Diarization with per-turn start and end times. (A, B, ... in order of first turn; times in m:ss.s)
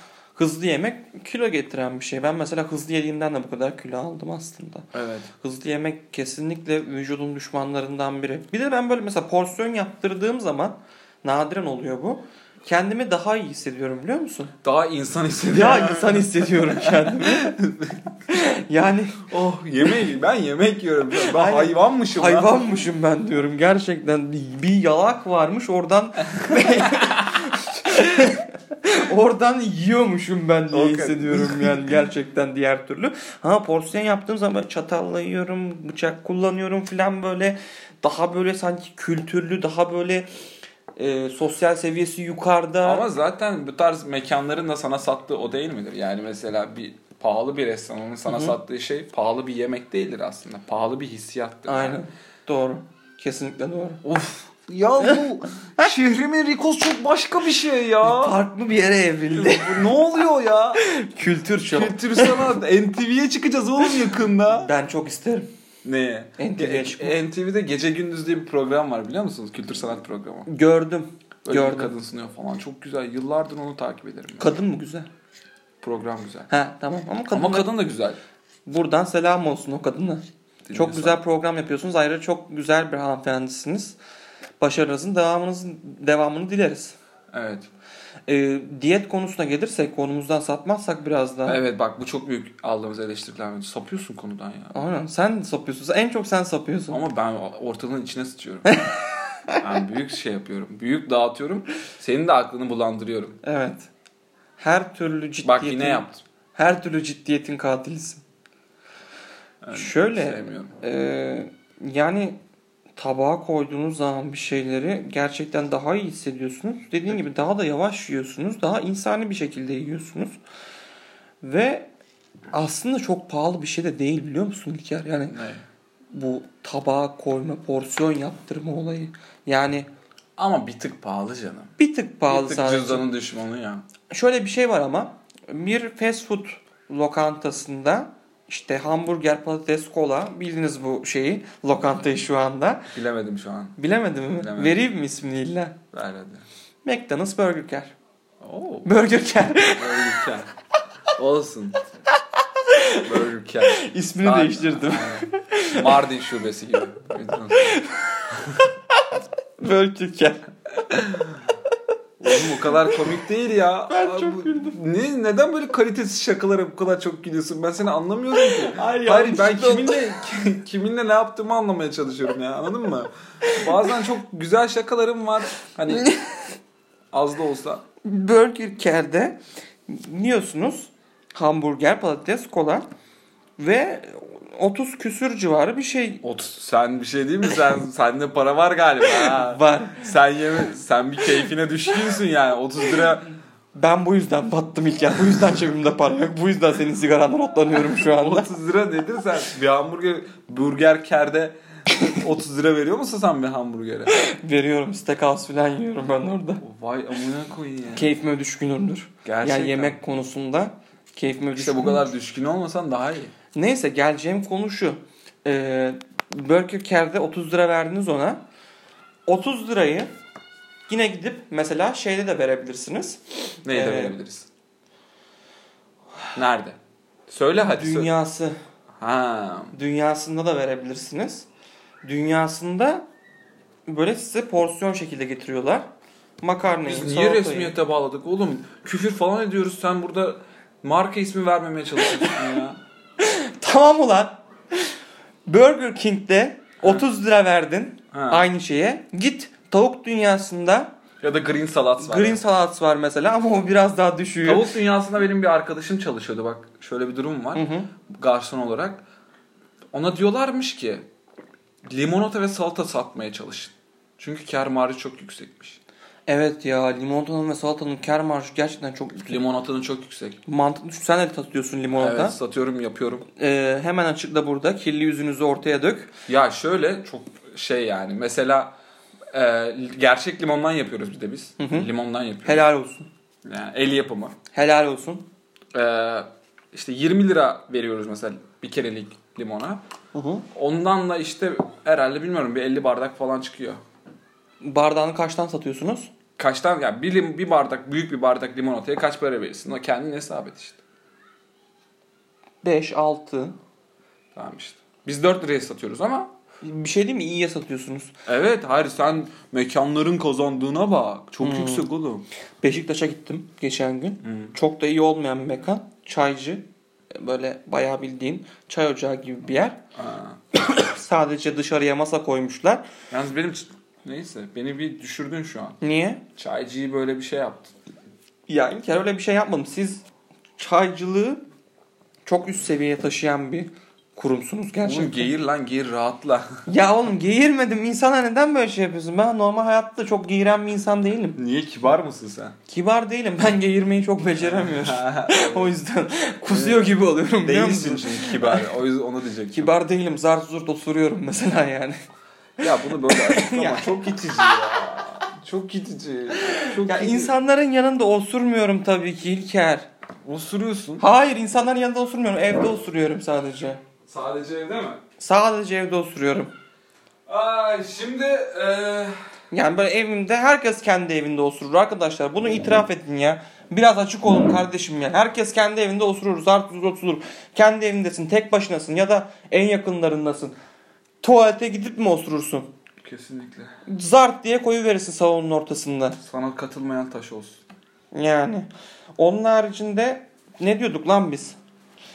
0:00.4-0:04.9 A
0:04.9-0:05.3 B
0:05.4-0:14.5 A
0:14.6-0:18.1 B
0:15.5-0:17.6 A
0:18.3-0:19.3 A
0:19.2-0:22.7 B
0:21.1-0:40.3 A
0:26.4-0:27.2 B
0:30.7-0:31.9 B
0:41.0-0:43.0 A
0:42.8-0:52.0 B
0:48.3-0:48.5 A
0:51.7-0:54.0 A
0:54.0-0:58.4 B
0:58.0-0:59.9 A
0:59.3-1:00.8 B
1:00.8-1:02.5 A
1:01.7-1:04.7 B
1:04.5-1:05.5 A
1:05.8-1:10.5 B
1:06.4-1:07.2 A
1:10.5-1:11.9 A
1:11.4-1:14.6 B
1:14.4-1:15.1 A
1:15.8-1:16.5 B
1:16.5-1:17.7 A
1:17.3-1:18.2 B
1:18.7-1:24.0 A
1:20.7-1:21.2 B
1:24.6-1:27.0 A
1:27.3-1:27.7 B
1:28.3-1:31.6 A
1:31.5-1:34.8 B
1:34.7-1:37.0 A
1:36.9-1:38.7 B
1:38.7-1:39.0 A
1:39.6-1:43.4 B
1:43.4-1:43.9 A
1:44.6-1:48.2 A
1:45.4-1:46.2 B
1:49.6-1:50.7 B
1:49.7-1:52.4 A
1:53.0-2:00.4 A
2:01.4-2:01.9 A
2:02.5-2:05.4 A
2:05.3-2:05.6 B
2:06.1-2:09.9 A
2:10.4-2:11.7 B
2:11.8-2:13.0 A
2:12.3-2:13.8 B
2:14.1-2:22.9 A
2:22.9-2:23.8 B
2:23.8-2:25.8 A
2:24.4-2:24.8 B
2:25.9-2:26.5 B
2:26.8-2:27.9 A
2:28.4-2:28.9 B
2:28.8-2:30.2 A
2:29.6-2:30.5 B
2:31.1-2:31.8 B
2:32.7-2:33.1 A
2:33.0-2:38.7 B
2:33.7-2:36.0 A
2:37.5-2:38.3 A
2:39.6-2:40.5 A
2:40.9-2:41.4 B
2:42.2-2:56.1 B
2:42.4-2:42.9 A
2:43.9-2:44.8 A
2:48.4-2:50.1 A
2:55.9-2:56.3 A
2:57.1-2:57.8 B
2:58.0-3:02.9 A
3:03.6-3:06.2 A
3:06.2-3:13.3 B
3:09.0-3:10.1 A
3:13.8-3:18.5 A
3:17.7-3:24.2 B
3:24.1-3:26.6 A
3:26.6-3:28.1 B
3:27.9-3:32.1 A
3:29.2-3:30.0 B
3:31.5-3:33.3 B
3:33.6-3:38.4 A
3:39.3-3:40.1 A
3:40.9-3:44.2 A
3:43.7-3:44.5 B
3:46.4-3:48.1 B
3:47.6-3:48.6 A
3:49.0-3:49.8 B
3:49.7-3:51.5 A
3:52.0-3:53.0 A
3:53.9-3:55.9 A
3:56.4-3:57.7 A
3:56.8-4:02.8 B
4:02.0-4:02.4 A
4:03.2-4:04.9 A
4:05.5-4:10.9 A
4:08.1-4:08.5 B
4:11.2-4:12.4 B
4:12.0-4:14.7 A
4:14.4-4:19.0 B
4:17.6-4:17.9 A
4:19.9-4:21.1 B
4:21.9-4:25.8 B
4:26.3-4:29.4 A
4:29.3-4:30.4 B
4:30.5-4:32.4 A
4:32.0-4:33.3 B
4:33.4-4:36.1 A
4:36.3-4:38.7 B
4:39.3-4:42.6 B
4:41.6-4:41.9 A
4:42.4-4:43.1 A
4:43.4-4:44.4 B
4:44.5-4:45.2 A
4:45.7-4:49.8 B
4:50.1-4:50.4 A
4:50.5-4:53.8 B
4:54.6-4:56.1 A
4:56.4-5:00.8 B
5:02.6-5:03.6 A
5:04.4-5:06.3 B
5:06.6-5:08.2 A
5:08.3-5:12.2 B
5:11.4-5:11.9 A
5:12.6-5:19.8 A
5:14.2-5:14.5 B
5:20.0-5:20.4 B
5:20.6-5:22.8 A
5:23.1-5:25.8 B
5:25.8-5:26.2 A
5:26.4-5:27.7 B
5:28.5-5:30.0 A
5:30.6-5:31.4 A
5:32.3-5:35.3 A
5:34.8-5:36.6 B
5:36.7-5:41.4 A
5:41.4-5:42.6 B
5:42.7-5:48.7 A
5:44.4-5:45.8 B
5:46.5-5:49.7 B
5:49.5-5:52.0 A
5:52.6-5:57.3 B
5:52.6-5:54.4 A
5:56.5-5:59.9 A
6:00.2-6:01.0 B
6:01.0-6:03.8 A
6:04.1-6:05.0 B
6:05.2-6:06.5 A
6:07.3-6:09.2 B
6:09.5-6:20.6 A
6:21.2-6:22.7 A
6:23.0-6:23.8 B
6:23.9-6:26.2 A
6:26.2-6:27.6 B
6:28.1-6:31.6 A